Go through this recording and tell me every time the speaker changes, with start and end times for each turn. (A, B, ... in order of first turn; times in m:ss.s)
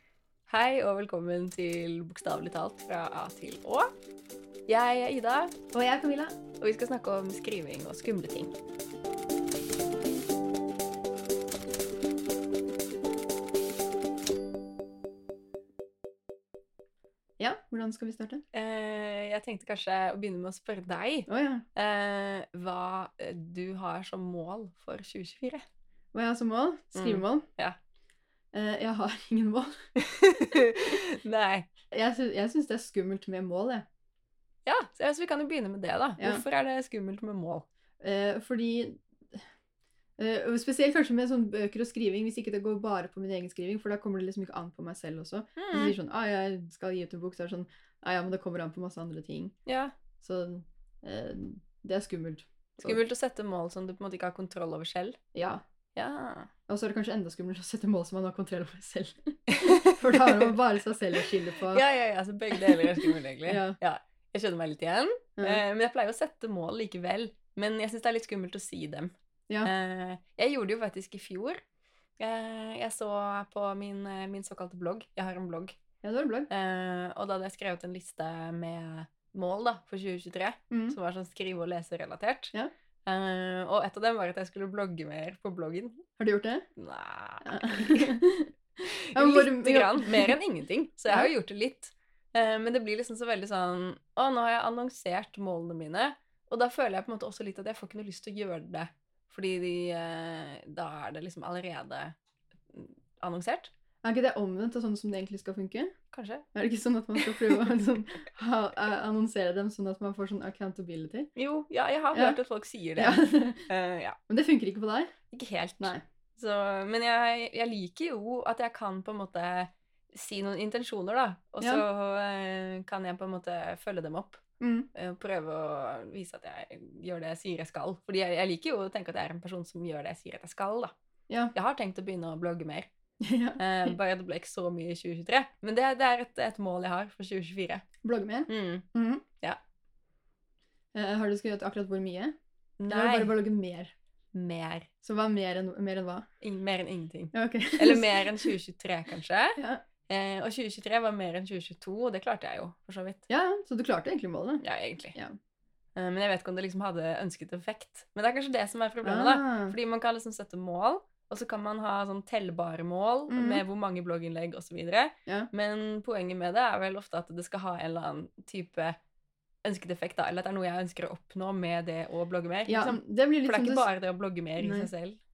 0:00.5-0:03.9 A
0:04.7-0:05.6 A
0:05.7-0:06.4 B
0:06.6-0:08.6 A
0:17.4-0:18.4 B
0:18.5-0:25.6 A
0:21.3-0:21.6 B
0:26.1-0:27.5 B
0:27.0-0:27.8 A
0:28.5-0:29.8 B
0:30.0-0:31.7 A
0:31.9-0:33.9 B
0:34.7-0:37.7 A
0:38.0-0:39.5 B
0:40.2-0:49.6 B
0:45.6-0:45.9 A
0:49.7-0:49.9 A
0:50.2-0:53.0 B
0:52.8-0:55.2 A
0:55.4-0:55.6 B
0:56.0-0:56.5 A
0:56.7-1:01.8 B
0:59.5-1:00.5 A
1:01.1-1:09.1 A
1:02.5-1:03.8 B
1:09.6-1:11.6 A
1:12.2-1:15.8 A
1:16.0-1:16.5 B
1:16.5-1:22.5 A
1:20.7-1:21.0 B
1:23.1-1:26.1 A
1:26.2-1:26.7 B
1:26.8-1:28.2 A
1:27.4-1:28.5 B
1:28.8-1:42.1 A
1:29.2-1:30.4 B
1:42.7-1:43.7 A
1:44.0-1:45.9 B
1:46.1-1:46.5 A
1:46.6-1:51.3 B
1:47.2-1:47.6 A
1:51.4-1:54.2 A
1:53.0-1:53.6 B
1:54.3-1:55.1 B
1:55.3-2:04.4 A
2:04.6-2:04.9 B
2:04.9-2:10.9 A
2:11.5-2:12.9 A
2:13.2-2:13.9 B
2:13.6-2:17.8 A
2:18.0-2:19.2 B
2:18.5-2:18.9 A
2:20.9-2:22.4 B
2:22.8-2:23.3 A
2:22.9-2:23.9 B
2:24.3-2:24.9 A
2:25.0-2:26.3 B
2:26.4-2:33.2 A
2:27.3-2:28.5 B
2:29.6-2:29.8 B
2:33.3-2:34.6 B
2:34.6-2:35.2 A
2:36.0-2:49.0 A
2:39.0-2:39.8 B
2:43.3-2:43.6 B
2:49.6-2:55.2 A
2:52.7-2:53.9 B
2:54.6-2:54.9 B